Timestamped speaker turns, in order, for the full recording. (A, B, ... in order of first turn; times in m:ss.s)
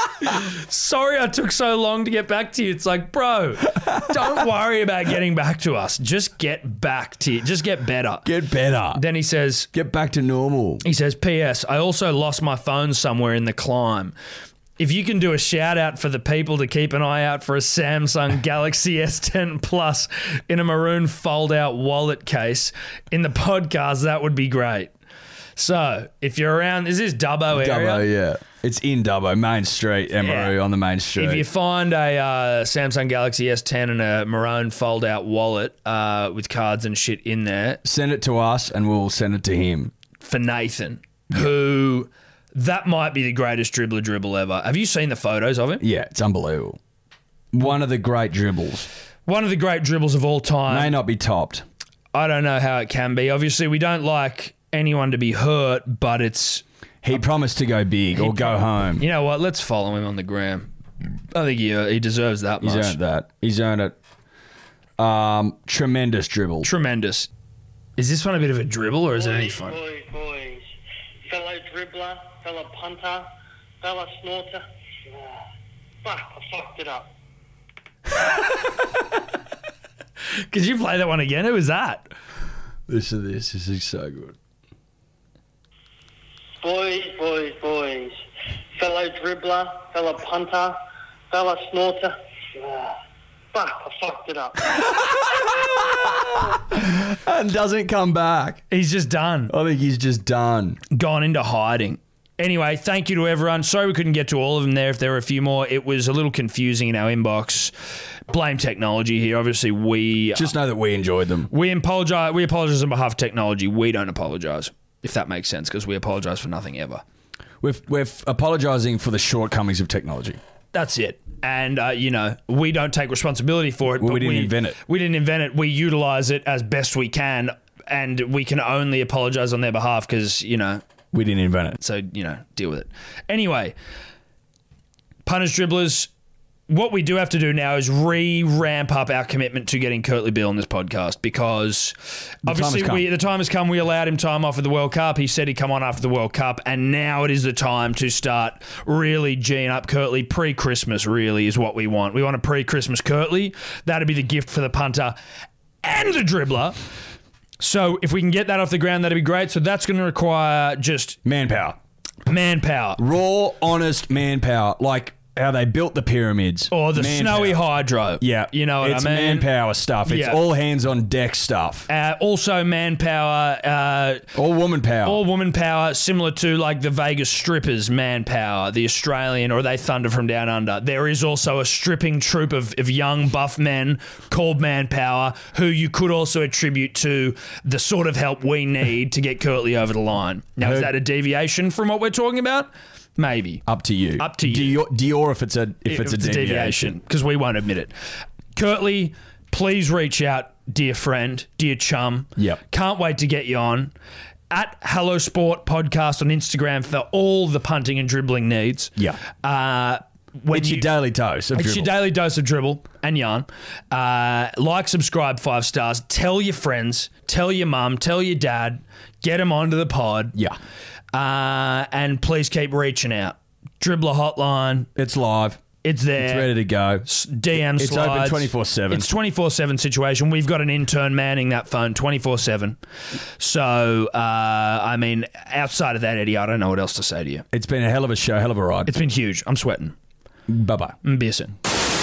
0:00.2-0:08.3 A
0:08.2-0:09.0 B
0:08.9-0:09.7 A
0:09.7-0:10.8 B
0:10.8-0:14.2 A
0:14.8-0:24.9 A
0:25.6-0:28.0 A
0:27.5-0:31.5 B
0:30.2-0:30.6 A
0:31.2-0:37.8 A
0:37.8-0:39.9 B
0:40.2-0:45.8 A
0:45.8-0:46.8 B
0:47.5-0:48.9 B
0:49.3-0:51.0 A
0:50.7-0:51.7 B
0:52.1-0:56.6 A
0:57.0-0:59.0 B
0:58.2-1:00.7 A
1:01.3-1:03.0 A
1:02.6-1:04.0 B
1:05.0-1:06.7 B
1:06.6-1:07.3 A
1:08.0-1:09.8 A
1:09.1-1:10.7 C
1:11.3-1:13.3 C
1:13.8-1:15.4 C
1:16.0-1:17.1 C
1:20.4-1:22.1 A
1:22.9-1:24.4 B
1:26.6-1:28.2 C
1:28.8-1:30.8 C
1:31.3-1:33.0 C
1:33.5-1:34.9 C
1:35.8-1:38.6 B
1:38.7-1:39.5 A
1:39.5-1:40.8 B
1:40.9-1:47.7 A
1:48.3-1:50.5 A
1:50.3-1:51.5 B
1:51.5-1:57.0 A
1:57.6-2:00.4 B
2:00.7-2:10.8 A
2:04.0-2:04.8 B
2:11.1-2:11.8 B
2:11.8-2:13.8 A
2:15.2-2:16.1 A
2:16.7-2:35.2 A
2:22.4-2:23.1 B
2:35.8-2:36.8 A
2:37.6-2:41.2 A
2:41.2-2:41.8 B
2:42.3-2:43.0 A
2:43.0-2:47.7 B
2:46.7-2:49.5 A
2:48.2-2:51.9 B
2:50.1-2:50.4 A
2:51.9-2:54.3 A
2:54.4-2:55.2 B
2:55.0-3:13.6 A
3:10.6-3:10.9 B
3:13.7-3:16.9 B
3:14.2-3:14.8 A
3:15.9-3:17.9 A
3:18.5-3:23.9 A
3:24.5-3:30.9 A
3:30.5-3:32.0 B
3:31.5-3:40.4 A
3:41.1-3:44.9 A
3:45.0-3:45.6 B
3:45.8-3:52.8 A
3:46.2-3:47.1 B
3:47.7-3:49.1 B
3:53.4-3:57.5 A
3:57.5-3:58.9 B
3:58.9-4:00.0 A
4:00.5-4:01.0 B
4:01.0-4:01.6 A